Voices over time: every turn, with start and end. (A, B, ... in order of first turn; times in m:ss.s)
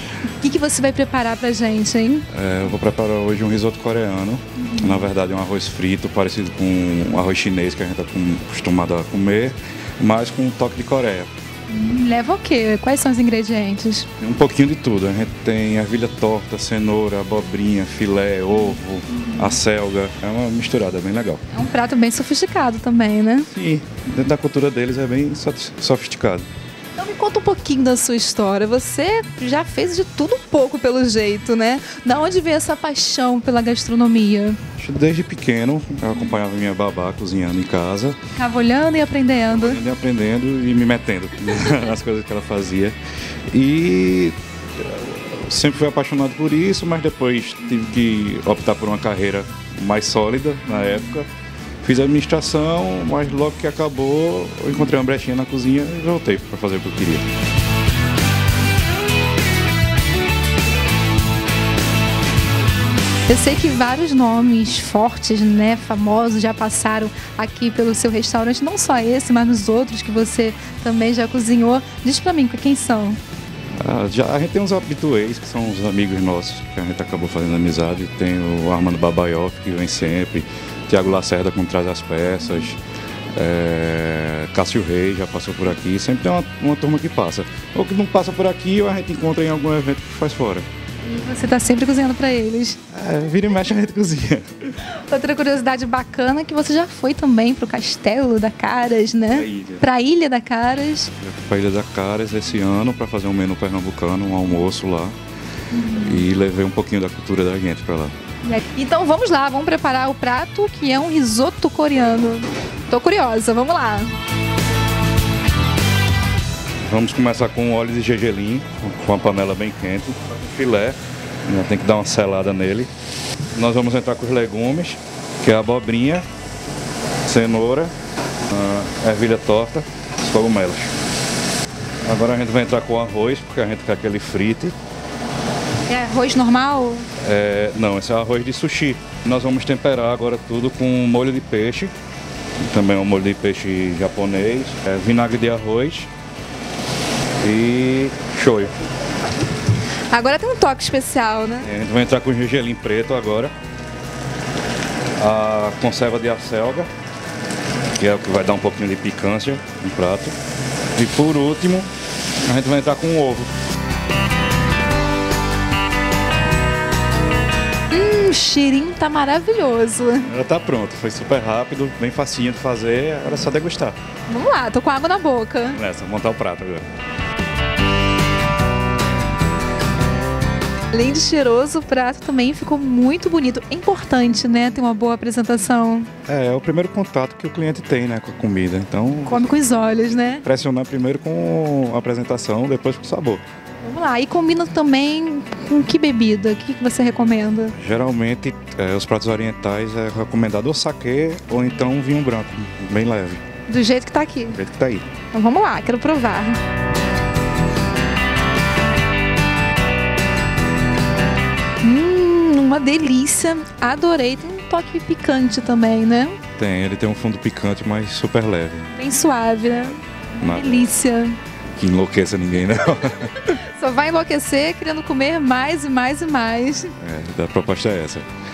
0:00.3-0:02.3 A
0:02.3-0:11.3 B
0:11.7-0:14.1 A
0:14.2-0:21.4 B
0:19.2-0:19.5 A
0:21.5-0:23.5 A
0:23.5-0:26.5 B
0:27.0-0:34.6 A
0:34.8-0:38.2 B
0:38.4-0:39.8 A
0:39.5-0:43.0 B
0:43.5-0:51.3 B
0:51.8-0:57.3 B
1:03.3-1:13.2 A
1:13.8-1:22.8 B
1:23.4-1:30.7 B
1:31.0-1:32.8 A
1:32.9-1:34.7 B
1:34.9-1:41.1 A
1:39.3-1:39.8 B
1:41.2-1:45.2 B
1:45.7-1:46.2 A
1:45.9-1:48.2 B
1:48.4-1:54.1 A
1:56.8-2:02.9 B
2:03.5-2:06.3 B
2:07.2-2:07.9 B
2:08.5-2:10.9 B
2:12.1-2:14.8 B
2:15.9-2:17.1 A
2:17.2-2:21.9 B
2:22.6-2:26.1 B
2:27.4-2:28.8 B
2:30.1-2:31.7 A
2:31.6-2:33.5 B
2:35.2-2:36.9 B
2:38.0-2:40.4 B
2:40.9-2:41.9 B
2:42.5-2:43.5 B
2:47.9-2:50.3 A
2:50.3-2:54.0 B
2:54.3-2:55.8 A
2:55.7-2:56.9 B
3:00.9-3:06.1 A
3:06.3-3:09.5 B
3:09.3-3:10.4 A
3:10.4-3:13.4 B
3:13.8-3:17.8 A
3:17.8-3:23.4 B
3:23.7-3:24.6 A
3:24.5-3:25.1 B
3:25.3-3:26.6 A
3:31.8-3:36.4 A
3:36.6-3:38.9 B
3:38.9-3:41.4 A
3:40.4-3:40.9 B
3:41.8-3:43.5 B
3:43.5-3:47.0 A
3:47.0-3:48.3 B